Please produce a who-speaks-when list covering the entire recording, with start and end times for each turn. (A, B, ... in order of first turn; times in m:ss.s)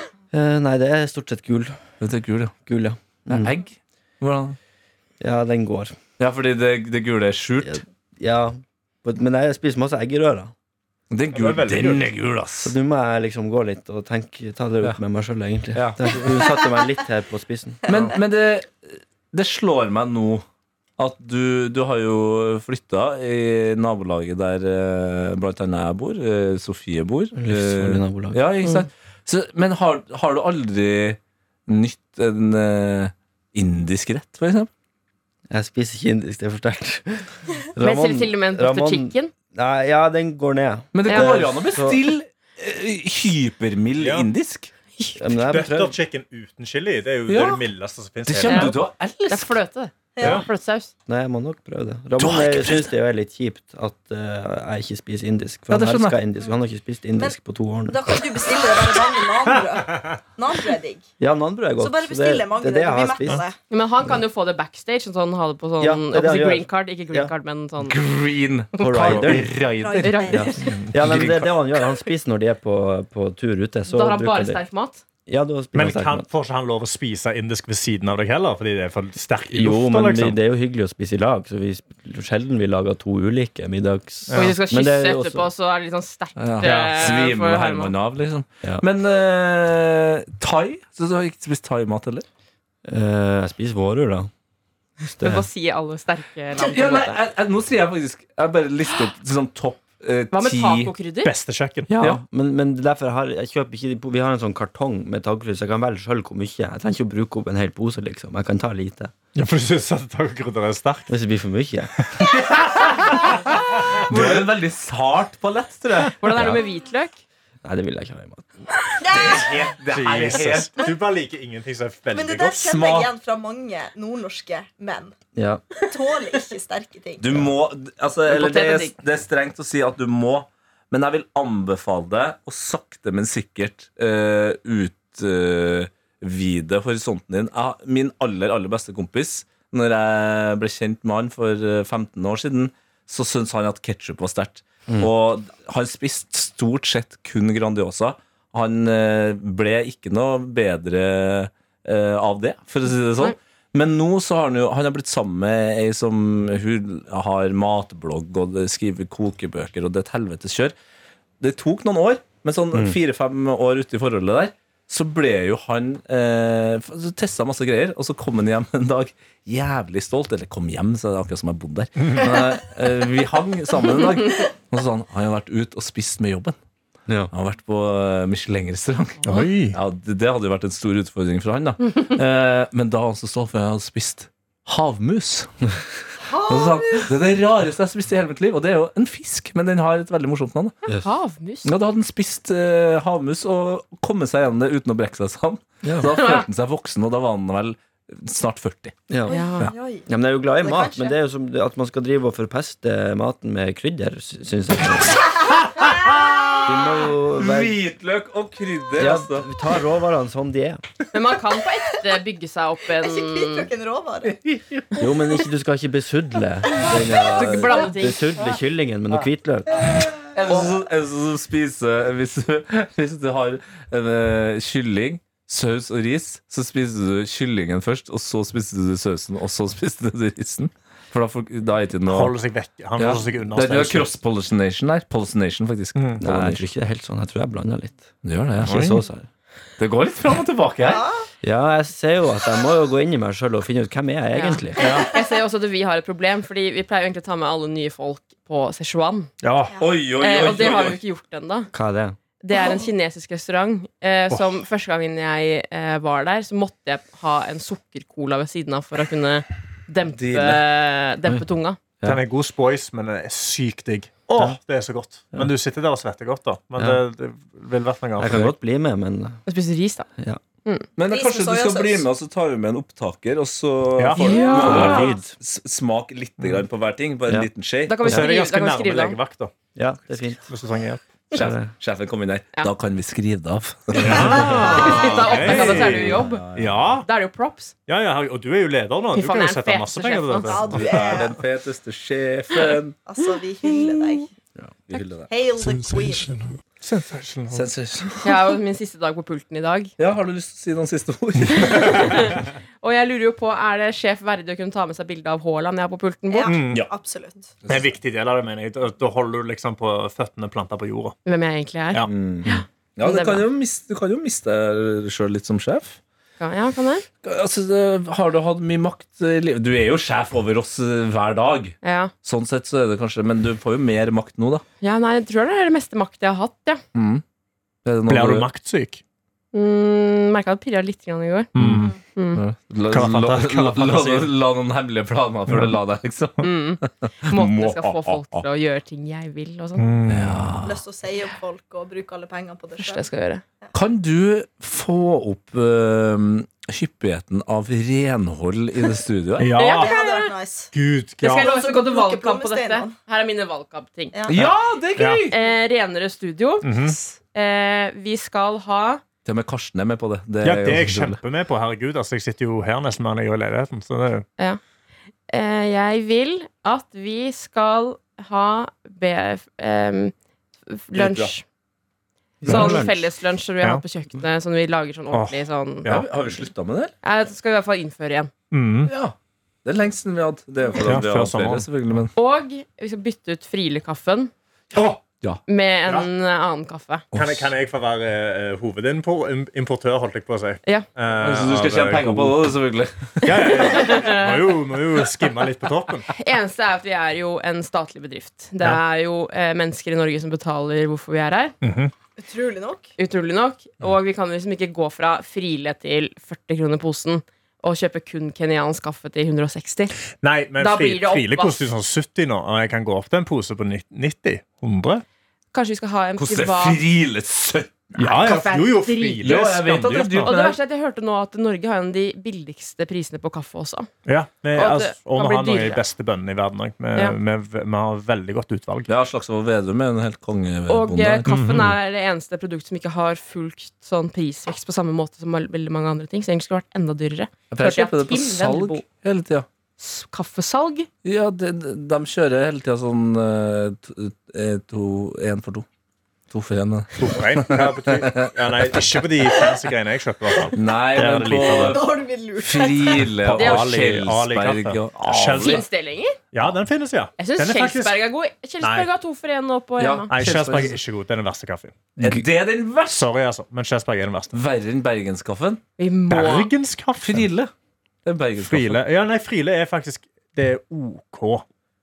0:00.3-0:01.8 A
0:02.0-0:02.6 B
0:02.7-0:03.5 A
0:03.3-0:04.6 B
0:05.2-0:06.0 A
0:06.2-0:07.8 B
0:07.6-0:10.5 A
0:11.1-0:12.8 B
0:11.3-0:12.1 C
0:12.6-0:17.8 A
0:15.7-0:16.3 B
0:17.9-0:20.4 B
0:21.0-0:34.7 B
0:27.4-0:28.4 A
0:35.5-0:42.0 A
0:37.8-0:39.3 D
0:40.9-0:44.7 B
0:44.0-0:44.3 C
0:45.2-0:46.0 A
0:45.5-0:48.8 C
0:47.3-0:47.7 B
0:48.3-0:49.6 B
0:48.4-0:48.8 D
0:49.3-0:50.9 D
0:50.2-0:50.5 E
0:50.2-0:50.5 C
0:51.1-0:58.1 A
0:52.2-0:52.9 B
0:55.7-0:56.2 B
0:57.2-1:01.0 E
0:59.8-1:00.2 C
1:01.2-1:03.4 A
1:01.8-1:03.6 E
1:03.7-1:08.0 D
1:05.8-1:07.3 A
1:07.8-1:10.3 B
1:08.7-1:09.3 D
1:08.8-1:09.6 A
1:09.8-1:10.9 E
1:10.0-1:10.7 D
1:10.3-1:14.6 A
1:10.9-1:11.6 B
1:13.9-1:15.0 D
1:15.3-1:16.3 A
1:15.7-1:20.4 C
1:19.5-1:25.5 A
1:24.3-1:24.5 C
1:24.3-1:27.9 D
1:26.4-1:32.2 B
1:26.6-1:27.2 C
1:32.8-1:34.3 A
1:35.2-1:35.5 A
1:35.2-1:37.2 D
1:36.6-1:40.9 B
1:40.3-1:41.3 D
1:41.2-1:41.9 C
1:41.9-1:49.1 A
1:41.9-1:42.2 B
1:49.4-1:51.1 C
1:51.1-1:51.9 A
1:52.6-1:53.2 B
1:53.1-1:54.5 C
1:54.1-1:56.6 B
1:56.2-1:57.2 D
1:57.6-1:58.5 A
1:59.0-1:59.7 E
1:59.1-2:00.9 B
1:59.9-2:02.7 C
2:02.1-2:05.1 E
2:02.6-2:03.1 B
2:05.4-2:05.6 A
2:05.8-2:07.4 E
2:07.2-2:40.8 B
2:08.3-2:09.0 D
2:41.4-2:56.6 B
2:42.7-2:43.0 A
2:57.3-3:05.5 B
2:59.2-2:59.8 C
3:06.2-3:07.1 E
3:06.4-3:10.8 B
3:11.0-3:11.7 D
3:11.6-3:19.0 B
3:15.8-3:16.1 A
3:16.1-3:16.4 D
3:19.1-3:19.4 A
3:19.2-3:20.1 E
3:19.3-3:19.7 D
3:20.1-3:25.3 A
3:20.6-3:21.2 E
3:26.3-3:29.5 B
3:26.6-3:27.8 A
3:29.0-3:30.8 A
3:31.1-3:33.7 D
3:33.0-3:34.4 E
3:34.2-3:34.9 B
3:35.0-3:39.9 A
3:37.3-3:38.3 D
3:40.3-3:52.3 B
3:52.1-3:54.1 C
3:53.0-3:56.6 B
3:56.0-3:56.2 C
3:56.2-3:58.1 A
3:58.2-3:59.0 B
3:58.6-3:59.3 A
3:58.7-3:59.0 C
3:59.8-4:01.0 B
4:00.8-4:01.3 E
4:01.4-4:04.9 A
4:04.3-4:09.3 D
4:04.8-4:05.1 C
4:09.4-4:09.8 C
4:09.8-4:11.0 B
4:10.2-4:11.7 D
4:11.7-4:12.2 A
4:12.4-4:21.8 D
4:12.5-4:12.8 E
4:20.1-4:20.7 B
4:22.0-4:28.5 C
4:28.2-4:29.4 A
4:29.5-4:30.1 D
4:31.0-4:38.2 B
4:31.1-4:32.1 E
4:34.0-4:35.0 C
4:34.2-4:35.1 D
4:34.6-4:35.3 A
4:37.9-4:39.2 D
4:38.0-4:39.5 C
4:39.8-4:40.4 A
4:40.5-4:41.1 C
4:41.3-4:47.0 B
4:41.3-4:41.7 A
4:44.0-4:47.1 C
4:44.3-4:46.4 D
4:47.0-4:47.7 D
4:47.9-4:51.2 C
4:49.1-4:50.6 D
4:50.5-4:51.4 E
4:50.7-4:53.0 B
4:53.0-4:54.3 E
4:54.9-4:55.3 B
4:55.3-4:56.4 E
4:56.8-4:57.6 C
4:57.5-4:58.6 B
4:58.2-4:59.9 D
5:00.0-5:02.4 B
5:01.7-5:06.6 D
5:06.3-5:07.5 E
5:06.5-5:06.9 C
5:07.7-5:11.2 C
5:11.3-5:13.5 D
5:12.1-5:16.0 B
5:16.4-5:17.1 D
5:17.2-5:24.6 B
5:21.8-5:22.1 D
5:24.8-5:26.8 D
5:27.0-5:27.2 B
5:27.8-5:28.5 B
5:28.1-5:29.0 C
5:29.5-5:31.5 D
5:31.6-5:32.0 C
5:31.6-5:38.4 B
5:32.2-5:32.4 D
5:32.9-5:34.3 C
5:36.4-5:39.9 D
5:39.8-5:40.6 C
5:40.1-5:40.8 B
5:40.6-5:43.1 E
5:42.8-5:43.4 D
5:43.7-5:49.5 B
5:49.4-5:50.0 C
5:49.6-5:50.3 D
5:49.6-5:50.7 E
5:50.7-5:51.5 C
5:51.2-5:54.2 D
5:51.3-5:52.9 E
5:54.1-5:54.5 E
5:54.3-5:55.4 B
5:55.0-5:55.2 C
5:55.3-5:59.0 D
5:56.6-5:57.0 C
5:59.2-6:01.2 B
6:00.4-6:04.3 C
6:05.3-6:10.1 D
6:10.7-6:11.4 D
6:11.0-6:11.4 B
6:12.4-6:13.0 A
6:12.4-6:15.9 D
6:12.5-6:12.9 C
6:15.1-6:16.1 C
6:15.8-6:17.0 B
6:17.0-6:18.3 D
6:18.5-6:18.9 C
6:18.9-6:22.1 B
6:20.8-6:21.7 C
6:22.2-6:24.3 D
6:24.7-6:25.4 B
6:25.5-6:27.0 D
6:27.1-6:27.5 B
6:27.1-6:32.4 C
6:31.2-6:33.7 B
6:33.2-6:36.1 C
6:33.3-6:34.5 D
6:36.1-6:41.5 D
6:41.6-6:41.9 C
6:42.2-6:42.9 E
6:43.0-6:50.0 D
6:50.2-6:55.0 C
6:50.6-6:51.6 D
6:55.5-6:56.8 D
6:56.2-6:58.0 B
6:58.0-7:00.3 C
6:58.0-6:59.3 D
6:59.2-7:00.6 B
7:00.2-7:03.9 D
7:04.0-7:08.9 C
7:04.5-7:05.8 D
7:08.9-7:11.4 B
7:10.7-7:18.8 D
7:11.3-7:11.8 C
7:17.5-7:19.5 B
7:19.8-7:20.9 D
7:21.0-7:25.7 B
7:26.3-7:28.9 B
7:27.0-7:31.8 C
7:30.5-7:35.6 B
7:31.4-7:33.1 E
7:33.2-7:35.6 C
7:33.4-7:33.7 D
7:35.4-7:36.2 D
7:36.3-7:38.0 C
7:37.2-7:40.1 D
7:38.6-7:38.9 C
7:39.8-7:40.8 B
7:40.1-7:41.9 C
7:42.0-7:43.1 B
7:42.9-7:44.3 C
7:44.3-7:45.6 B
7:45.8-7:46.5 D
7:46.1-7:47.3 C
7:47.0-7:47.5 B
7:48.0-7:48.8 B
7:48.4-7:51.4 C